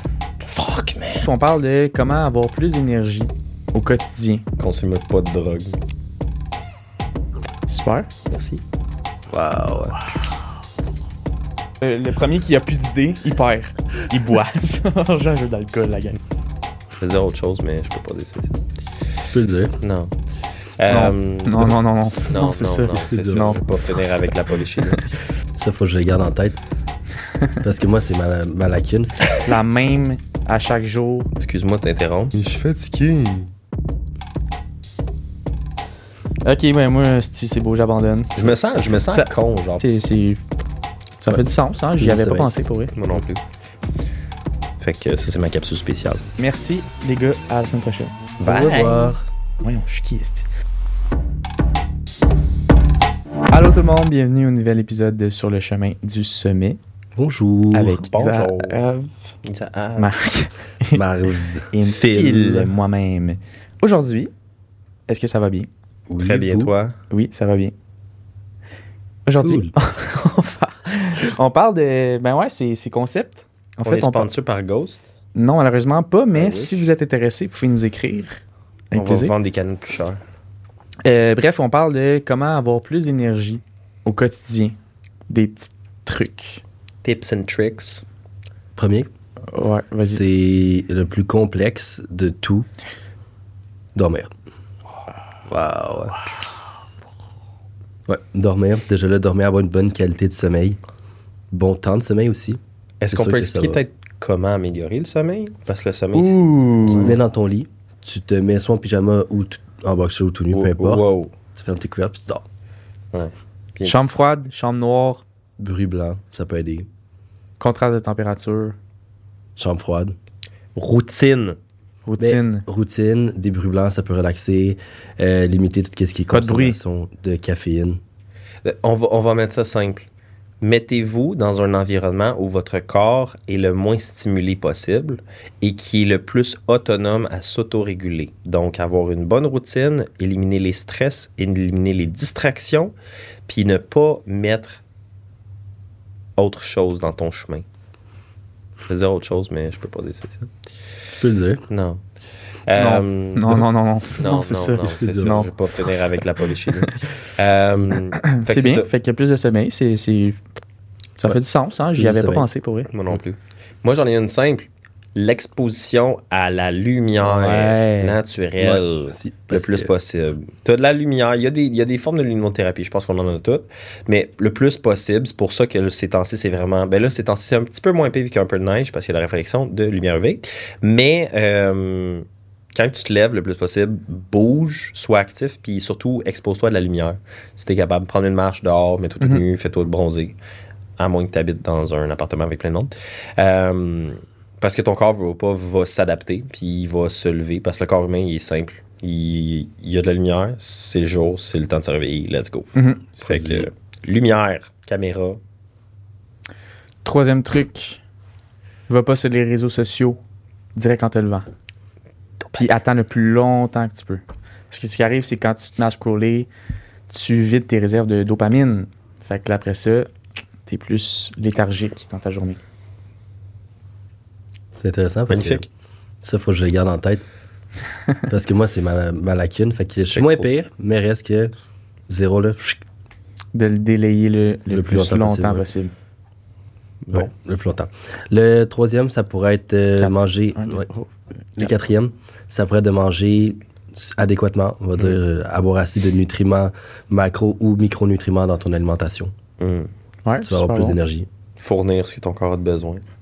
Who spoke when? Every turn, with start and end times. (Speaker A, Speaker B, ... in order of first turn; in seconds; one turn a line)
Speaker A: 0.4-1.3
Speaker B: 1.2-4.5
Speaker A: 4.6-5.8
Speaker B: 7.7-8.1
Speaker A: 8.3-8.6
Speaker C: 9.3-10.0
Speaker B: 11.8-16.2
Speaker A: 17.0-18.6
Speaker C: 19.2-19.8
Speaker A: 19.8-20.1
Speaker A: 20.8-21.8
Speaker B: 20.9-24.3
Speaker A: 22.3-25.2
Speaker C: 22.9-23.6
Speaker B: 24.8-25.1
Speaker C: 25.5-26.6
Speaker C: 27.6-29.2
Speaker B: 29.4-31.3
Speaker A: 31.4-33.5
Speaker B: 36.4-38.6
Speaker A: 38.4-39.8
Speaker B: 39.1-40.4
Speaker B: 41.2-42.9
Speaker C: 42.0-42.5
Speaker A: 43.0-43.4
Speaker A: 44.8-46.2
Speaker B: 46.4-48.1
Speaker A: 48.4-49.1
Speaker C: 48.4-49.3
Speaker B: 49.6-50.5
Speaker B: 53.5-56.8
Speaker C: 57.2-58.0
Speaker B: 57.7-59.3
Speaker A: 57.9-58.8
Speaker A: 59.4-60.1
Speaker B: 60.0-61.0
Speaker C: 60.9-61.7
Speaker B: 61.7-64.3
Speaker A: 61.9-62.7
Speaker B: 65.1-65.7
Speaker C: 66.1-66.7
Speaker A: 66.2-67.0
Speaker B: 67.1-67.7
Speaker B: 69.3-74.3
Speaker C: 69.4-69.7
Speaker A: 73.8-75.0
Speaker B: 75.3-79.3
Speaker A: 76.3-76.9
Speaker A: 78.9-80.2
Speaker B: 81.0-84.8
Speaker B: 85.3-86.6
Speaker A: 87.0-88.0
Speaker C: 88.8-89.1
Speaker B: 89.5-90.2
Speaker C: 90.0-92.7
Speaker C: 94.0-94.3
Speaker C: 95.5-96.2
Speaker C: 98.1-100.8
Speaker C: 101.5-103.8
Speaker A: 103.0-107.2
Speaker B: 106.1-107.2
Speaker C: 106.9-111.0
Speaker A: 110.5-111.3
Speaker C: 111.5-112.5
Speaker A: 113.1-114.0
Speaker B: 113.8-115.2
Speaker C: 115.6-116.9
Speaker B: 117.6-118.8
Speaker C: 119.6-120.2
Speaker A: 120.8-121.6
Speaker B: 122.1-122.7
Speaker C: 122.2-128.0
Speaker B: 126.3-126.8
Speaker A: 128.7-130.1
Speaker A: 130.6-142.9
Speaker A: 143.5-144.8
Speaker A: 146.4-147.7
Speaker A: 148.9-150.5
Speaker C: 151.1-151.6
Speaker A: 151.7-152.0
Speaker A: 152.7-153.7
Speaker B: 152.8-156.0
Speaker A: 154.2-158.9
Speaker C: 154.8-155.5
Speaker B: 156.8-157.0
Speaker B: 158.2-160.4
Speaker B: 161.2-162.9
Speaker C: 162.0-162.5
Speaker A: 162.9-190.4
Speaker B: 167.2-168.2
Speaker C: 168.6-169.9
Speaker A: 191.0-205.4
Speaker B: 202.8-203.0
Speaker C: 203.2-203.7
Speaker B: 207.0-208.0
Speaker B: 208.9-210.2
Speaker B: 210.8-211.5
Speaker A: 212.4-212.7
Speaker B: 212.6-216.5
Speaker B: 217.1-220.1
Speaker B: 220.7-222.6
Speaker C: 224.8-225.7
Speaker A: 225.3-225.7
Speaker C: 226.2-227.2
Speaker C: 228.3-231.5
Speaker A: 230.0-230.5
Speaker C: 232.1-232.8
Speaker B: 233.5-235.9
Speaker C: 234.7-235.7
Speaker A: 237.1-237.3
Speaker C: 237.1-240.9
Speaker B: 240.0-241.7
Speaker C: 241.6-249.3
Speaker A: 249.6-249.9
Speaker B: 250.2-251.0
Speaker C: 250.4-251.3
Speaker A: 251.6-253.0